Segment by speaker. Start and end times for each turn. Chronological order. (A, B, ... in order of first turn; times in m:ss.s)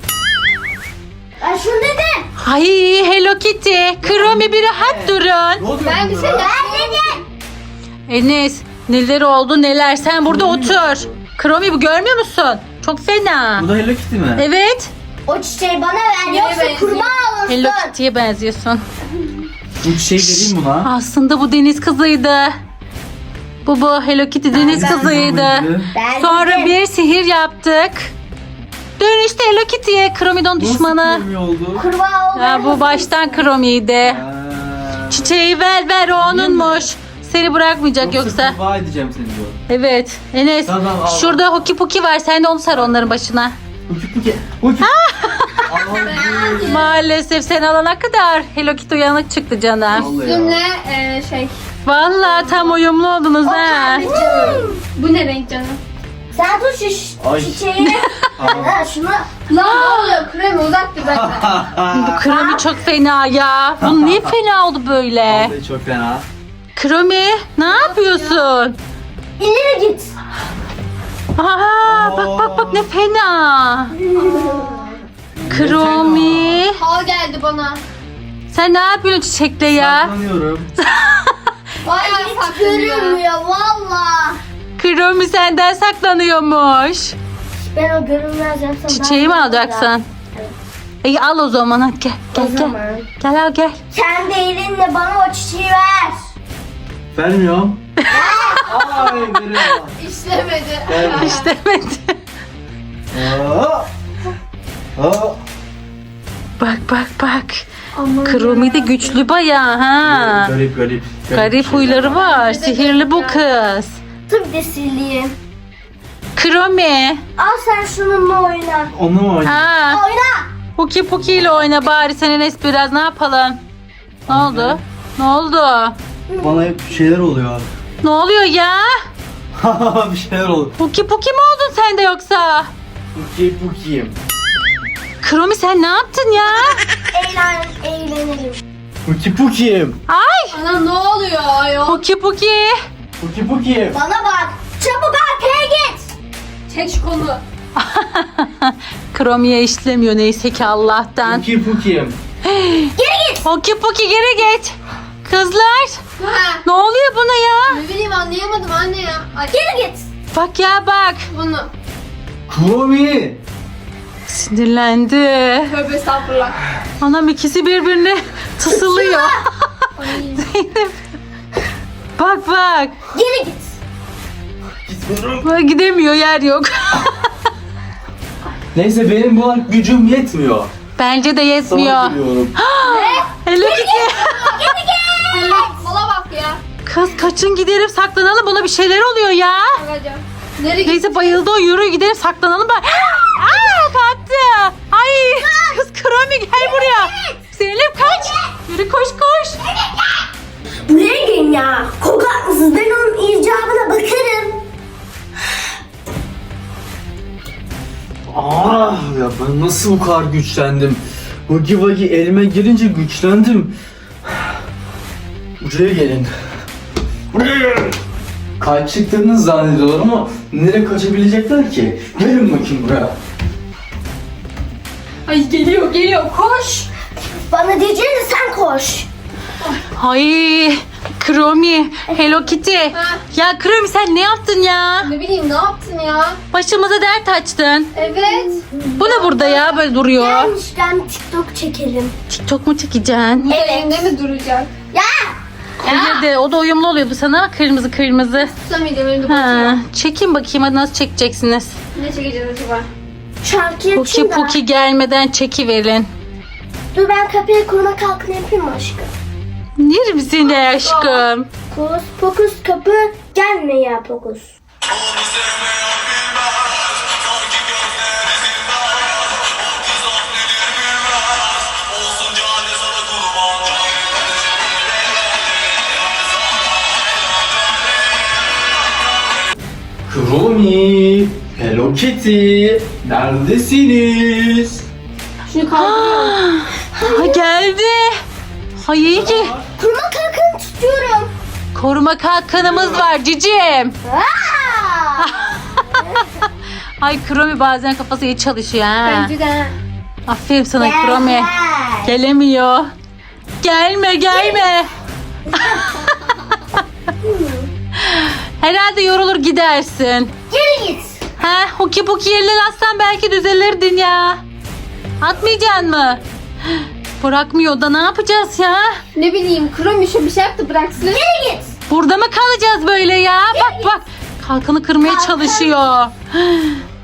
0:01.4-0:02.3 A
0:02.4-0:05.6 B
0:04.0-0:06.5 C
0:05.8-0:07.1 D
0:06.3-0:07.2 A
0:08.1-0:13.7 B
0:10.2-0:11.2 C
0:13.6-0:14.4 C
0:14.4-0:14.9 B
0:15.2-0:17.9 A
0:16.2-0:17.1 D
0:17.5-0:18.8 B
0:19.8-0:20.9 C
0:20.2-0:22.5 B
0:23.6-0:28.1 B
0:24.5-0:25.2 D
0:24.6-0:25.9 C
0:25.9-0:26.8 A
0:29.0-0:31.2 B
0:30.6-0:31.8 C
0:31.7-0:33.5 A
0:32.4-0:34.2 B
0:34.0-0:35.3 C
0:35.1-0:38.6 B
0:36.2-0:36.9 C
0:38.0-0:39.6 C
0:39.7-0:43.6 B
0:40.6-0:41.4 C
0:43.9-0:44.9 C
0:44.8-0:45.8 B
0:45.7-0:46.8 C
0:45.9-0:46.8 D
0:46.6-0:50.1 B
0:49.9-0:50.6 C
0:49.9-0:51.5 D
0:51.8-0:54.1 B
0:53.4-0:54.8 A
0:54.0-0:55.8 D
0:56.3-0:59.3 A
0:57.2-0:57.7 C
0:58.4-0:58.7 C
0:59.5-1:01.7 D
0:59.6-1:00.2 B
1:01.0-1:02.2 C
1:01.9-1:05.5 B
1:02.2-1:02.7 A
1:03.8-1:04.3 C
1:05.3-1:06.2 C
1:06.8-1:08.8 B
1:07.7-1:08.4 D
1:09.4-1:10.1 A
1:11.4-1:13.9 B
1:11.8-1:12.9 C
1:14.0-1:15.0 A
1:15.5-1:16.6 C
1:15.5-1:16.8 B
1:16.7-1:17.8 D
1:18.5-1:20.1 B
1:19.7-1:20.7 C
1:20.8-1:21.3 B
1:21.8-1:23.2 D
1:21.9-1:24.4 A
1:24.8-1:27.1 B
1:27.6-1:30.5 A
1:28.9-1:30.0 B
1:31.0-1:33.8 B
1:32.3-1:33.1 A
1:33.9-1:36.2 A
1:37.1-1:37.8 C
1:38.0-1:38.7 A
1:38.6-1:40.0 C
1:40.0-1:41.5 D
1:40.9-1:41.4 C
1:41.0-1:42.2 B
1:43.1-1:43.9 C
1:45.0-1:45.4 C
1:46.6-1:47.6 B
1:47.9-1:49.2 D
1:48.2-1:50.5 B
1:50.0-1:52.3 C
1:51.3-1:54.0 B
1:52.1-1:53.5 D
1:54.3-1:55.4 A
1:56.4-1:57.2 B
1:57.4-1:58.9 A
1:58.9-1:59.6 C
1:59.4-2:00.0 B
1:59.8-2:00.5 A
2:00.8-2:03.6 B
2:04.3-2:06.0 B
2:04.3-2:04.8 C
2:06.3-2:06.6 A
2:06.4-2:07.7 C
2:08.0-2:08.9 B
2:09.6-2:10.7 C
2:10.8-2:12.7 B
2:13.1-2:14.2 C
2:15.2-2:16.8 B
2:17.0-2:18.6 A
2:19.0-2:20.0 C
2:20.1-2:20.6 B
2:20.5-2:22.0 D
2:21.8-2:22.7 B
2:23.2-2:24.0 C
2:23.9-2:26.1 A
2:26.7-2:27.4 D
2:27.8-2:31.4 B
2:31.2-2:32.2 C
2:32.4-2:36.0 B
2:33.0-2:33.5 A
2:36.2-2:36.6 D
2:36.6-2:37.8 B
2:37.7-2:39.6 D
2:39.5-2:40.0 A
2:40.3-2:41.3 B
2:41.3-2:41.7 D
2:42.5-2:43.4 C
2:44.3-2:45.7 B
2:45.7-2:46.6 D
2:47.0-2:49.4 B
2:48.6-2:49.4 A
2:50.0-2:50.4 D
2:50.3-2:51.0 B
2:52.2-2:52.9 B
2:53.1-2:53.8 A
2:54.8-2:55.5 C
2:55.4-2:57.3 B
2:58.7-3:00.7 C
3:01.0-3:04.7 B
3:01.7-3:02.6 C
3:02.8-3:05.7 A
3:05.3-3:06.6 D
3:06.8-3:09.8 B
3:09.7-3:11.4 D
3:10.8-3:19.6 B
3:13.4-3:13.8 A
3:15.3-3:15.8 A
3:16.6-3:17.4 A
3:18.0-3:18.5 A
3:19.7-3:20.0 A
3:20.9-3:24.6 A
3:28.3-3:33.7 C
3:35.6-3:36.3 C
3:37.3-3:37.9 C
3:38.6-3:43.1 C
3:45.3-3:46.9 D
3:47.5-3:49.1 A
3:50.0-3:55.1 B
3:52.9-3:53.2 D
3:55.0-3:56.4 D
3:56.5-3:57.9 B
3:57.9-3:59.8 D
3:58.0-3:59.2 A
3:59.0-4:00.5 B
4:00.1-4:02.1 A
4:02.3-4:03.5 B
4:03.4-4:04.7 D
4:03.5-4:04.1 A
4:04.9-4:05.4 A
4:05.8-4:08.5 B
4:05.9-4:06.2 A
4:08.4-4:09.8 D
4:09.3-4:11.8 B
4:11.9-4:12.9 D
4:13.4-4:14.6 A
4:13.9-4:16.1 B
4:16.9-4:19.1 A
4:19.8-4:21.5 B
4:20.4-4:21.2 D
4:21.7-4:24.5 A
4:25.1-4:26.4 C
4:27.5-4:28.7 C
4:29.6-4:30.7 C
4:31.7-4:33.6 C
4:40.1-4:44.8 C
4:45.5-4:46.4 D
4:45.7-4:48.2 B
4:46.9-4:47.4 A
4:48.8-4:49.5 B
4:49.1-4:49.6 C
4:49.8-4:51.3 A
4:51.7-4:53.9 B
4:52.7-4:53.0 C
4:54.0-4:56.2 A
4:55.2-4:56.3 B
4:57.0-4:59.3 B
4:59.0-4:59.7 D
5:00.3-5:01.5 B
5:00.8-5:02.1 A
5:02.0-5:02.9 B
5:03.6-5:04.9 B
5:04.3-5:04.7 A
5:05.6-5:06.2 B
5:07.2-5:07.7 A
5:08.0-5:10.3 B
5:10.5-5:11.2 A
5:11.4-5:14.4 B
5:15.2-5:19.0 B
5:19.1-5:21.2 D
5:21.0-5:21.7 A
5:21.9-5:26.8 B
5:23.5-5:24.0 A
5:25.0-5:25.8 A